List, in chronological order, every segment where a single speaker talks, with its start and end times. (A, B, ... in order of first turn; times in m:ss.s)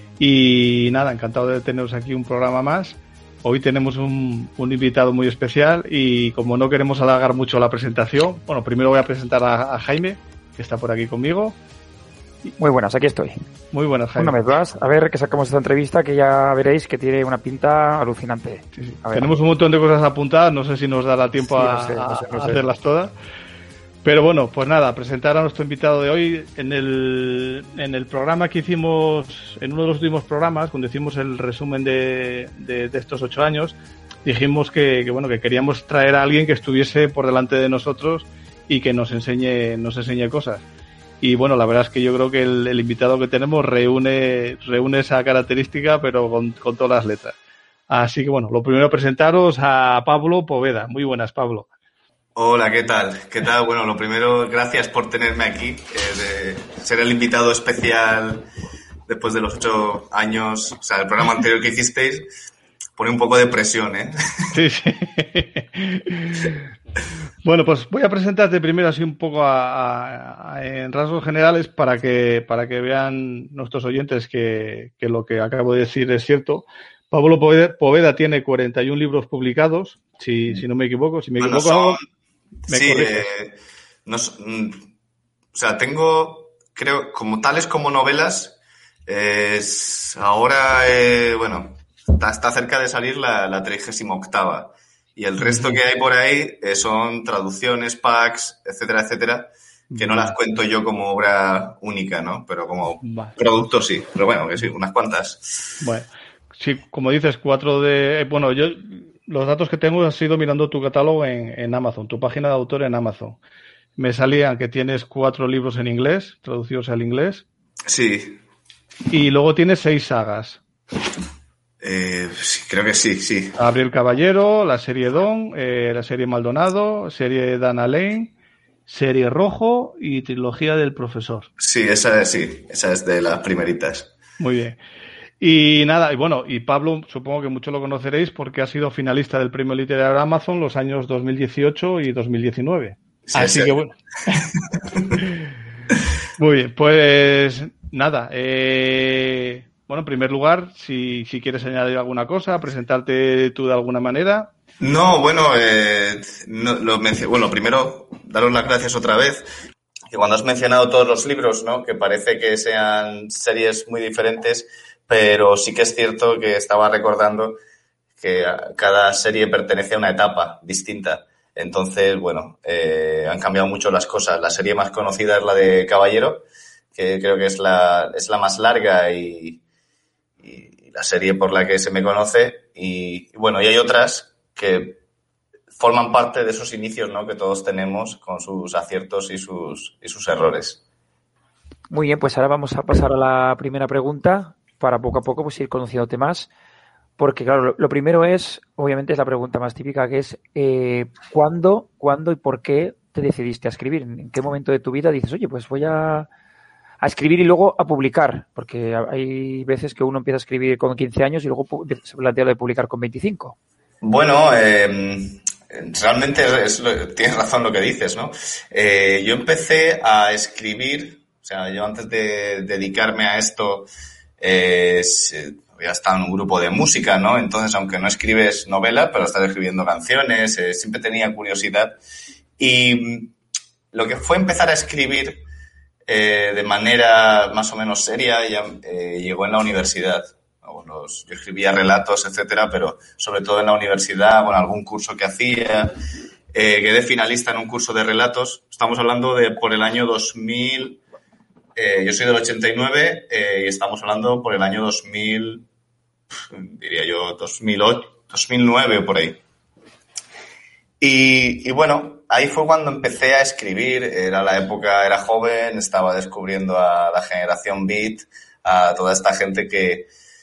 0:00.2-0:11.6 A
0:12.6-0:13.4 B
0:13.7-0:14.4 A
0:14.2-0:19.3 B
0:18.8-0:23.1 A
0:21.5-0:22.6 B
0:24.0-0:40.6 A
0:41.2-0:47.4 A
0:47.9-0:51.7 A
0:52.3-0:58.4 C
0:59.1-1:02.3 C
1:03.0-1:04.5 C
1:04.5-1:06.6 A
1:07.4-1:22.0 A
1:21.4-1:22.0 C
1:22.7-1:23.3 A
1:22.7-1:23.5 C
1:24.0-1:24.8 C
1:25.5-1:45.8 C
1:35.4-1:35.8 A
1:39.9-1:40.4 A
1:43.0-1:43.3 A
1:45.8-1:53.4 A
1:54.0-1:57.4 A
1:57.9-1:58.4 C
1:59.1-2:00.6 A
2:01.8-2:03.6 C
2:03.6-2:08.3 A
2:08.9-2:11.5 A
2:11.6-2:14.1 C
2:14.4-2:14.8 A
2:15.4-2:24.5 A
2:23.3-2:23.7 C
2:25.1-2:25.5 A
2:26.4-2:34.5 A
2:34.8-2:39.5 C
2:40.1-2:47.6 C
2:48.2-2:59.6 C
3:00.4-3:05.0 C
3:05.8-3:10.8 C
3:11.9-3:16.5 B
3:17.2-3:26.3 B
3:27.0-3:33.6 B
3:34.0-3:43.9 C
3:44.4-3:52.0 C
3:52.6-3:53.3 C
3:53.9-3:55.4 C
3:56.1-4:05.9 C
4:06.5-4:11.0 C
4:11.8-4:15.6 C
4:16.3-4:19.4 C
4:21.0-4:30.1 C